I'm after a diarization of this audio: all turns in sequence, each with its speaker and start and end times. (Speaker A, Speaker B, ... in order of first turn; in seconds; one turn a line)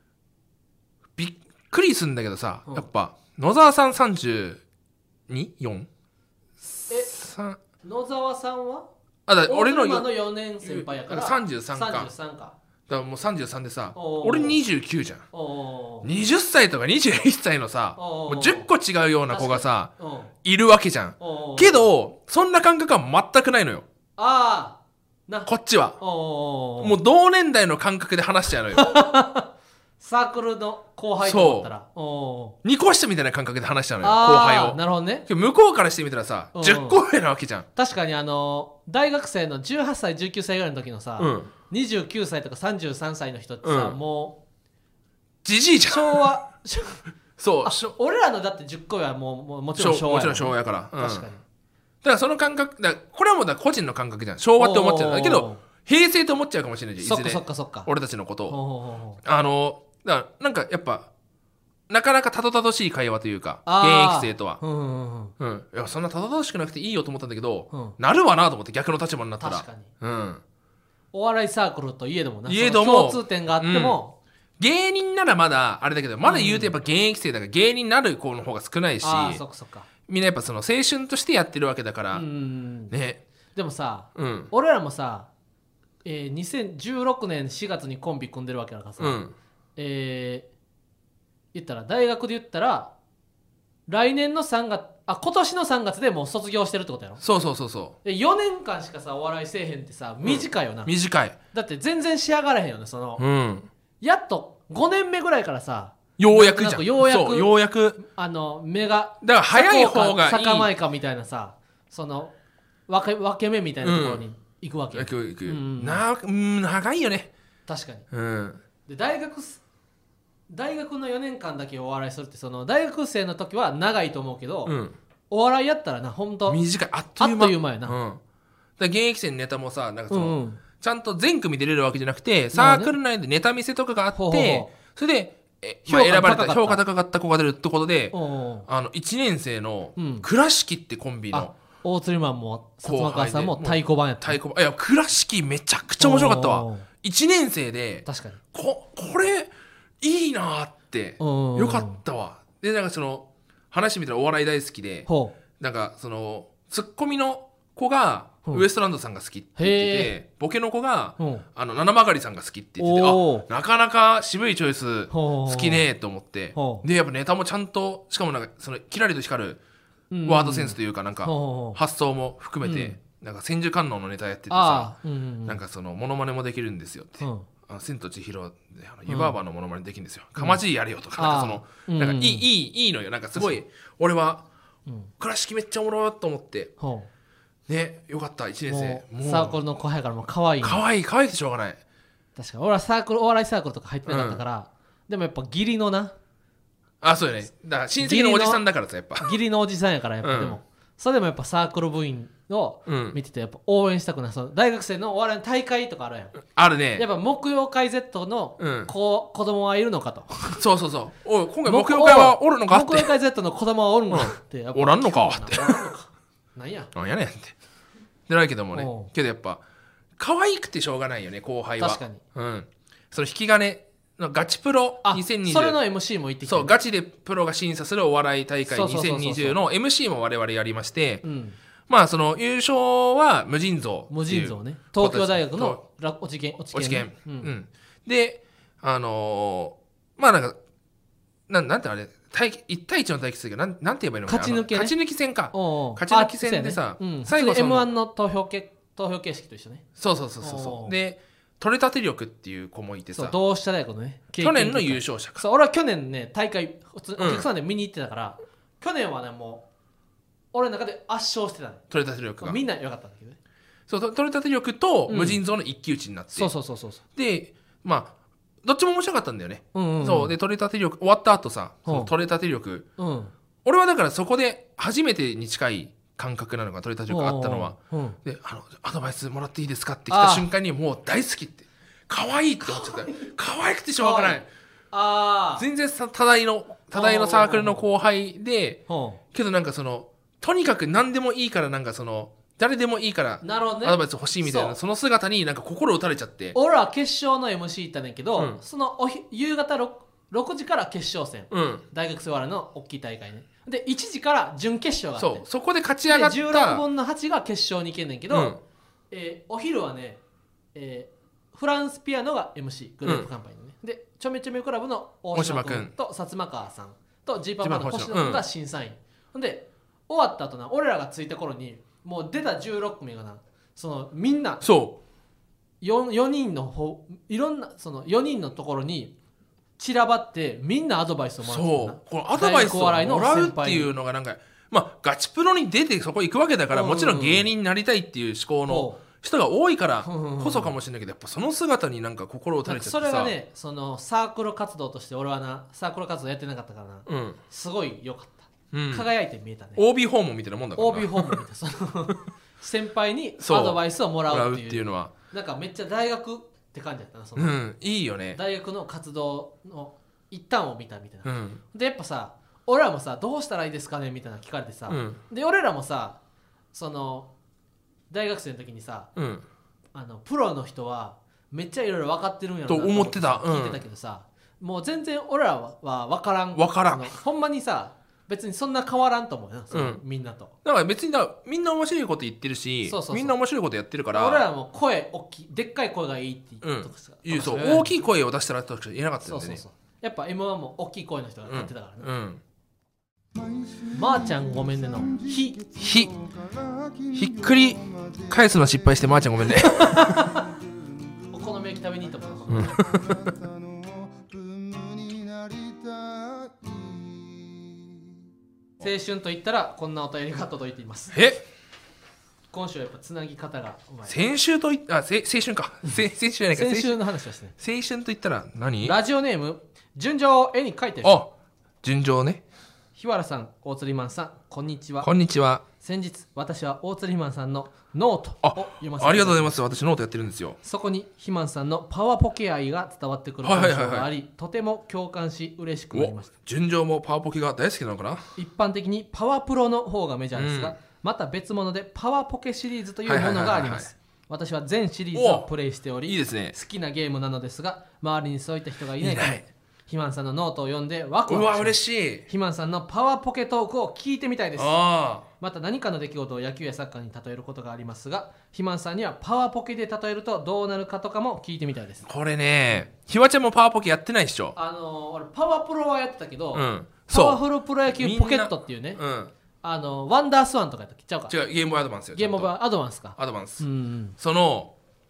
Speaker A: 1.2-4.6
Speaker A: 5.3-5.9
Speaker A: 6.6-7.6
Speaker B: 7.8-8.9
Speaker A: 9.3-10.1
Speaker B: 9.4-12.5
Speaker A: 10.6-12.1
Speaker A: 12.9-15.2
Speaker B: 13.9-14.6
Speaker B: 15.3-16.1
Speaker A: 16.0-19.9
Speaker B: 17.9-18.7
Speaker B: 19.3-20.3
Speaker A: 20.4-23.8
Speaker B: 21.2-21.9
Speaker B: 24.2-27.0
Speaker A: 25.4-26.0
Speaker A: 26.8-29.1
Speaker B: 28.7-32.6
Speaker A: 31.2-31.7
Speaker A: 32.6-37.7
Speaker B: 34.0-35.3
Speaker B: 36.5-37.0
Speaker B: 37.7-44.4
Speaker A: 41.2-41.5
Speaker A: 43.6-44.0
Speaker A: 45.4-46.3
Speaker B: 45.9-47.0
Speaker A: 47.4-47.9
Speaker B: 47.6-51.4
Speaker A: 49.8-51.3
Speaker A: 52.0-58.6
Speaker B: 54.6-55.6
Speaker B: 57.0-57.9
Speaker B: 58.5-59.2
Speaker A: 59.2-61.1
Speaker A: 61.9-64.6
Speaker B: 63.6-65.3
Speaker A: 65.4-70.4
Speaker B: 67.7-68.0
Speaker B: 69.4-69.9
Speaker B: 71.1-74.2
Speaker A: 72.5-74.0
Speaker A: 74.6-79.4
Speaker B: 76.2-76.7
Speaker B: 79.0-79.9
Speaker A: 80.1-82.2
Speaker B: 82.1-82.9
Speaker A: 82.9-83.2
Speaker B: 83.5-85.3
Speaker A: 84.1-84.5
Speaker B: 86.0-89.2
Speaker A: 89.0-89.3
Speaker B: 89.8-90.5
Speaker B: 91.5-92.9
Speaker B: 93.9-97.2
Speaker A: 97.2-98.0
Speaker B: 98.0-100.9
Speaker A: 100.2-101.4
Speaker B: 101.5-103.2
Speaker A: 103.2-103.7
Speaker B: 104.0-112.3
Speaker A: 106.2-108.0
Speaker A: 109.2-110.7
Speaker B: 112.9-116.0
Speaker A: 113.8-114.2
Speaker A: 114.9-117.3
Speaker B: 117.7-118.0
Speaker A: 118.1-118.6
Speaker B: 118.8-119.6
Speaker B: 120.5-124.8
Speaker A: 124.7-125.0
Speaker B: 125.3-126.6
Speaker A: 126.5-128.2
Speaker B: 127.2-128.0
Speaker A: 128.8-138.2
Speaker B: 130.1-130.6
Speaker B: 132.5-132.9
Speaker B: 134.1-134.7
Speaker B: 135.9-136.8
Speaker B: 138.1-138.7
Speaker A: 138.7-141.5
Speaker B: 139.9-140.3
Speaker B: 141.3-144.4
Speaker A: 142.8-155.1
Speaker B: 146.0-146.9
Speaker B: 148.0-148.4
Speaker B: 151.2-152.0
Speaker B: 155.1-155.3
Speaker A: 155.6-169.6
Speaker B: 159.6-160.1
Speaker B: 161.2-161.4
Speaker B: 162.8-163.4
Speaker B: 165.1-165.8
Speaker B: 166.5-166.8
Speaker B: 170.1-171.8
Speaker A: 170.2-174.9
Speaker B: 172.6-173.0
Speaker B: 174.5-175.6
Speaker A: 175.4-184.4
Speaker B: 177.2-177.5
Speaker B: 179.1-179.3
Speaker B: 180.3-180.6
Speaker B: 181.1-182.5
Speaker A: 185.2-186.7
Speaker B: 186.8-187.1
Speaker A: 187.7-189.6
Speaker B: 188.7-190.8
Speaker A: 190.6-191.8
Speaker B: 192.3-196.1
Speaker A: 194.1-194.4
Speaker A: 197.0-199.3
Speaker B: 198.0-198.6
Speaker B: 199.2-206.4
Speaker A: 200.2-200.6
Speaker A: 202.9-203.2
Speaker A: 206.4-207.1
Speaker B: 206.9-210.6
Speaker A: 208.6-208.9
Speaker A: 210.6-213.1
Speaker B: 211.7-216.9
Speaker A: 214.1-215.8
Speaker A: 216.9-217.5
Speaker A: 218.3-219.6
Speaker B: 218.7-219.1
Speaker A: 220.2-225.8
Speaker B: 221.8-222.2
Speaker B: 225.0-226.7
Speaker A: 226.4-231.2
Speaker B: 228.7-229.6
Speaker B: 231.2-231.6
Speaker A: 231.9-235.8
Speaker B: 234.1-237.5
Speaker A: 236.7-240.6
Speaker A: 241.5-247.9
Speaker B: 244.3-244.9
Speaker B: 245.5-249.8
Speaker A: 250.0-253.3
Speaker B: 250.4-251.0
Speaker B: 253.1-259.6
Speaker A: 254.4-255.4
Speaker A: 257.2-257.5
Speaker B: 260.5-261.8
Speaker A: 261.9-262.6
Speaker B: 262.4-263.4
Speaker A: 263.9-266.5
Speaker B: 265.1-265.4
Speaker B: 266.3-267.0
Speaker A: 267.1-272.9
Speaker B: 269.7-270.3
Speaker B: 271.9-272.1
Speaker B: 273.0-273.3
Speaker A: 273.6-284.5
Speaker B: 277.1-278.2
Speaker B: 280.1-280.5
Speaker B: 282.6-283.3
Speaker B: 284.0-285.7
Speaker A: 285.6-288.8
Speaker B: 286.9-287.9
Speaker B: 288.9-289.2
Speaker A: 289.3-296.6
Speaker B: 293.4-294.8
Speaker B: 296.5-305.4
Speaker A: 301.5-301.8
Speaker A: 305.2-306.8
Speaker B: 306.1-308.6
Speaker A: 308.3-308.6
Speaker B: 309.1-310.2
Speaker B: 310.7-324.6
Speaker A: 315.3-315.9
Speaker A: 317.6-318.4
Speaker A: 324.6-325.0
Speaker B: 325.8-329.1
Speaker B: 329.8-333.9
Speaker A: 331.4-343.3
Speaker B: 336.7-337.5
Speaker B: 338.7-339.0
Speaker B: 340.0-340.7
Speaker B: 342.6-349.8
Speaker A: 347.1-347.4
Speaker A: 348.7-349.1
Speaker A: 349.8-351.4
Speaker B: 350.8-357.6
Speaker A: 353.4-355.1
Speaker A: 357.4-358.4
Speaker B: 358.3-366.2
Speaker A: 361.2-361.6
Speaker A: 364.9-365.2
Speaker B: 366.7-367.3
Speaker B: 368.1-369.1
Speaker A: 369.1-369.4
Speaker B: 369.9-380.5
Speaker A: 372.7-373.8
Speaker A: 376.5-377.1
Speaker A: 379.7-380.0
Speaker A: 380.6-384.4
Speaker B: 382.9-383.4
Speaker B: 384.1-388.0
Speaker A: 386.6-389.6
Speaker B: 389.2-392.1
Speaker A: 391.5-392.4
Speaker C: 393.3-398.4
Speaker B: 393.9-395.6
Speaker A: 395.8-396.1
Speaker A: 397.1-400.4
Speaker B: 399.6-400.2
Speaker C: 400.0-400.6
Speaker B: 401.3-402.9
Speaker C: 401.6-408.0
Speaker A: 402.5-403.3
Speaker B: 408.8-411.2
Speaker A: 411.1-411.4
Speaker B: 412.5-414.2
Speaker A: 414.1-417.0
Speaker B: 416.5-417.5
Speaker A: 417.6-419.0
Speaker B: 418.8-421.2
Speaker A: 421.0-421.3
Speaker A: 421.8-422.4
Speaker B: 422.9-425.1
Speaker A: 425.0-425.6
Speaker B: 425.8-429.6
Speaker A: 428.4-430.6
Speaker B: 430.6-436.3
Speaker A: 433.4-434.1
Speaker A: 435.9-438.3
Speaker B: 438.4-454.8
Speaker A: 440.3-440.7
Speaker A: 443.1-443.9
Speaker A: 445.1-445.5
Speaker A: 446.0-446.5
Speaker A: 449.0-449.4
Speaker A: 451.3-452.3
Speaker A: 454.6-455.2
Speaker B: 455.3-462.1
Speaker A: 462.0-464.6
Speaker B: 464.5-469.0
Speaker A: 466.5-469.3
Speaker B: 469.6-471.3
Speaker A: 471.3-472.5
Speaker B: 472.1-474.1
Speaker A: 473.1-473.6
Speaker A: 474.2-474.7